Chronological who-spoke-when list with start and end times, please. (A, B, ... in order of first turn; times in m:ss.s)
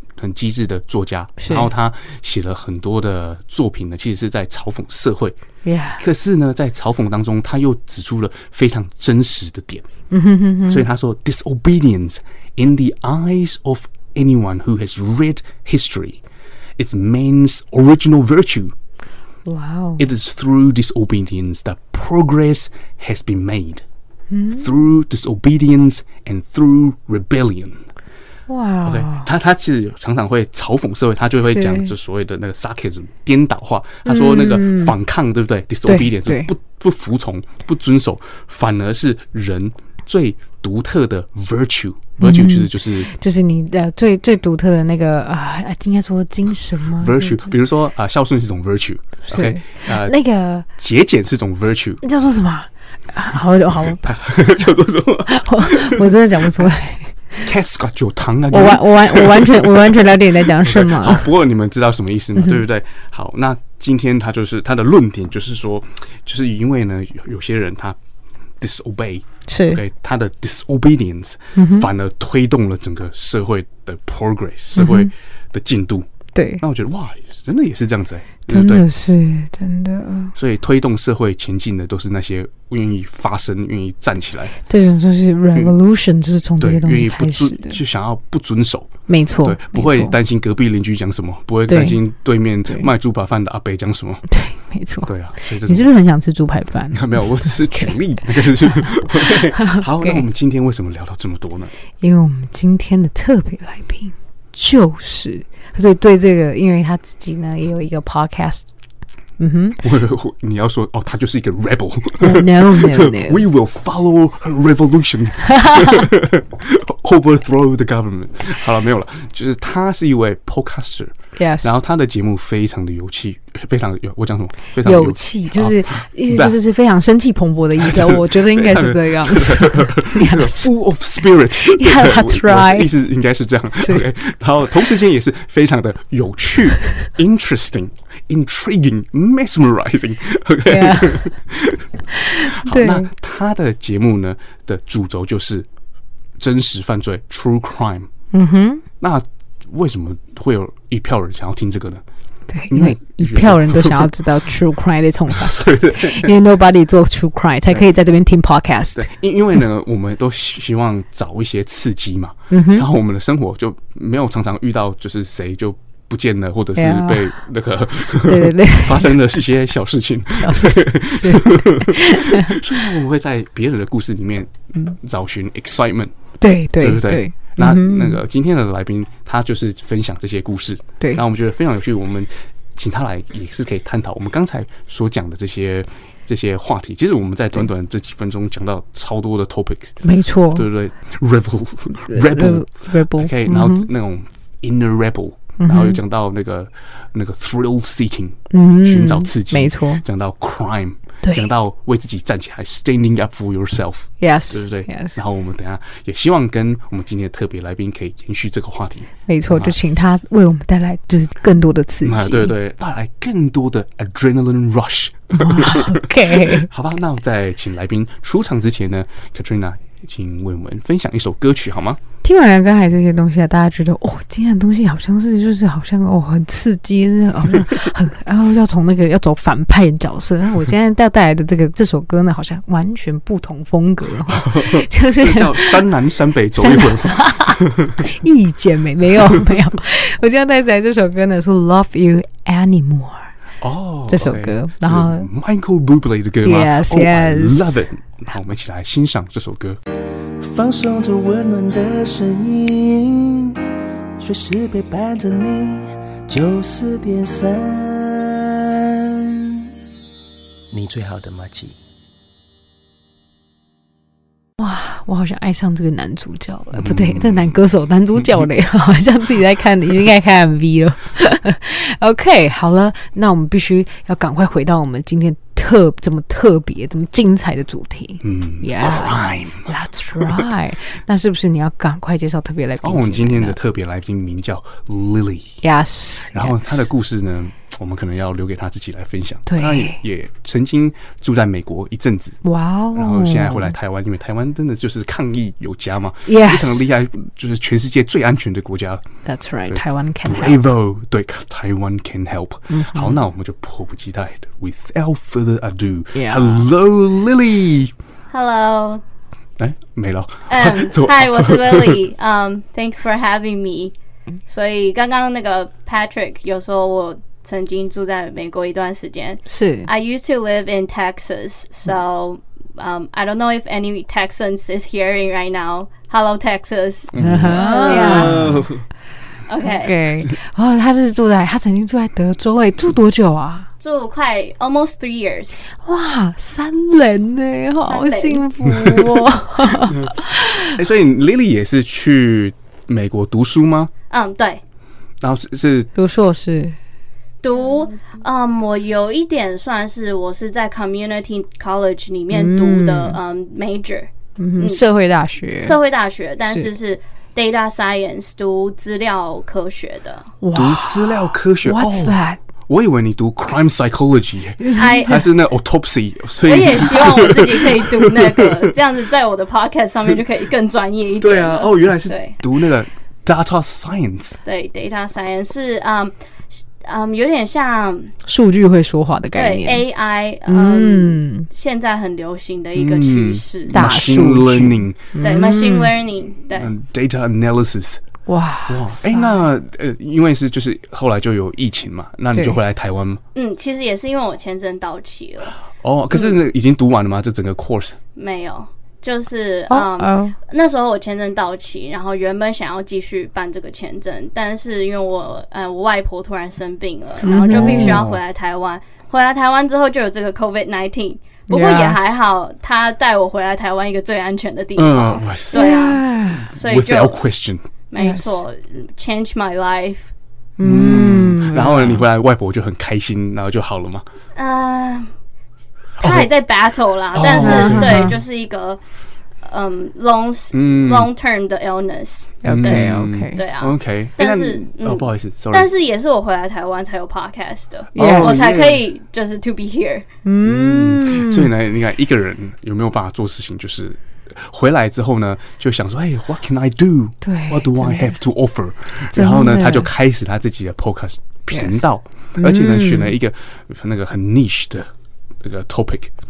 0:00.2-0:05.4 A
0:01.4-0:01.7 B
0:05.6-0:06.0 B
0:06.0-0:09.9 A
0:10.1-0:10.8 B
0:10.7-0:16.2 A
0:16.8-0:18.7 A
0:19.4-0:20.0 B
0:20.0-0:23.8 A
0:24.3-0:24.7 B
0:24.6-0:27.8 A
0:28.5-0:29.3 B
0:28.8-0:43.1 A
0:31.5-0:31.9 B
0:34.0-0:34.9 B
0:35.9-0:36.5 B
0:42.2-0:47.5 B
0:47.0-0:52.0 A
0:49.3-0:50.6 B
0:52.0-0:54.0 B
0:53.9-0:56.6 A
0:55.3-0:57.4 B
0:57.4-1:08.0 A
0:58.5-1:01.3 B
1:08.6-1:16.1 A
1:09.5-1:09.8 B
1:11.6-1:11.9 B
1:14.8-1:15.1 B
1:16.3-1:16.6 B
1:16.6-1:18.8 A
1:18.5-1:20.3 B
1:20.3-1:24.6 A
1:24.7-1:27.8 B
1:26.6-1:34.2 A
1:29.1-1:30.1 B
1:31.7-1:32.0 B
1:34.3-1:35.1 B
1:35.0-1:35.9 A
1:35.6-1:37.9 B
1:36.9-1:41.7 A
1:39.6-1:40.2 B
1:42.0-1:48.6 B
1:49.4-1:49.8 B
1:49.8-2:06.6 A
1:52.2-1:53.4 B
1:55.5-1:56.1 B
2:01.4-2:01.8 B
2:04.8-2:10.7 B
2:07.8-2:21.8 A
2:11.6-2:12.9 B
2:13.8-2:14.0 B
2:20.6-2:21.3 B
2:22.2-2:23.1 B
2:22.4-2:25.7 A
2:26.4-2:28.1 A
2:28.3-2:28.8 B
2:29.0-2:32.0 A
2:32.5-2:39.1 B
2:32.7-2:34.2 A
2:35.3-2:36.3 A
2:38.9-2:56.1 A
2:42.5-2:42.9 B
2:46.8-2:47.3 B
2:48.2-2:49.1 B
2:50.3-2:52.6 B
2:56.4-2:58.2 B
2:56.8-3:10.0 A
3:10.0-3:10.6 B
3:10.5-3:29.8 A
3:12.1-3:13.9 B
3:15.6-3:16.0 B
3:18.5-3:20.0 B
3:24.2-3:25.2 B
3:29.3-3:32.5 B
3:32.0-3:42.0 A
3:35.3-3:36.7 B
3:42.2-3:55.8 B
3:54.3-3:58.0 A
3:56.6-4:03.3 B
4:03.6-4:09.8 A
4:04.1-4:05.3 B
4:06.4-4:07.9 B
4:10.4-4:13.6 C
4:14.2-4:19.6 C
4:20.7-4:21.8 C
4:24.6-4:43.6 B
4:26.7-4:27.5 A
4:38.2-4:40.4 A
4:42.8-4:45.6 A
4:45.6-4:46.8 B
4:46.3-4:52.4 A
4:49.5-4:50.0 B
4:52.4-4:53.7 B
4:52.9-4:59.0 A
4:56.2-4:56.8 B
4:59.2-5:00.6 B
4:59.6-5:07.9 A
5:02.7-5:03.2 B
5:06.1-5:06.6 B
5:08.3-5:09.0 D
5:09.6-5:12.0 A
5:10.5-5:13.9 D
5:14.5-5:28.5 D
5:19.5-5:19.9 B
5:27.1-5:28.8 A
5:27.2-5:28.7 B
5:29.5-5:30.0 D
5:29.6-5:33.7 B
5:33.8-5:35.7 D
5:35.8-5:40.8 B
5:37.8-5:38.4 D
5:39.8-5:40.1 A
5:40.7-5:43.9 A
5:44.1-5:44.6 D
5:45.2-5:45.9 A
5:46.0-5:46.8 B
5:47.4-5:54.8 D
5:52.3-5:53.2 B
5:54.4-5:55.8 B
5:55.6-6:00.3 D
6:00.4-6:02.4 B
6:00.5-6:08.7 A
6:04.6-6:05.2 B
6:04.8-6:05.2 D
6:06.4-6:12.4 D
6:11.2-6:14.4 A
6:14.4-6:16.1 D
6:16.8-6:18.1 D
6:18.2-6:19.8 B
6:19.4-6:23.8 D
6:20.5-6:21.5 B
6:22.8-6:25.1 A
6:23.7-6:25.9 B
6:25.2-6:26.7 D
6:26.6-6:28.0 A
6:28.2-6:29.4 B
6:28.7-6:33.2 A
6:33.4-6:35.6 D
6:35.8-6:38.0 A
6:38.2-6:56.0 D
6:39.7-6:40.4 B
6:47.2-6:48.0 B
6:47.4-6:48.2 A
6:51.5-6:52.1 B
6:54.8-6:55.7 A
6:55.5-6:56.5 B
6:56.4-6:57.7 A
6:56.5-6:57.2 D
6:57.9-7:00.1 D
6:58.0-6:58.3 B
7:00.6-7:02.0 B
7:00.6-7:04.0 A
7:04.4-7:05.1 D
7:06.0-7:06.3 A
7:06.0-7:08.8 D
7:07.1-7:08.2 A
7:07.2-7:08.1 B
7:09.4-7:20.0 D
7:10.5-7:11.1 A
7:12.4-7:13.4 B
7:12.5-7:15.7 A
7:17.9-7:18.4 B
7:18.0-7:18.8 A
7:20.2-7:21.5 B
7:20.4-7:34.9 A
7:27.2-7:28.2 B
7:29.1-7:29.9 B
7:31.5-7:31.8 B
7:32.4-7:33.1 B
7:35.4-7:36.1 A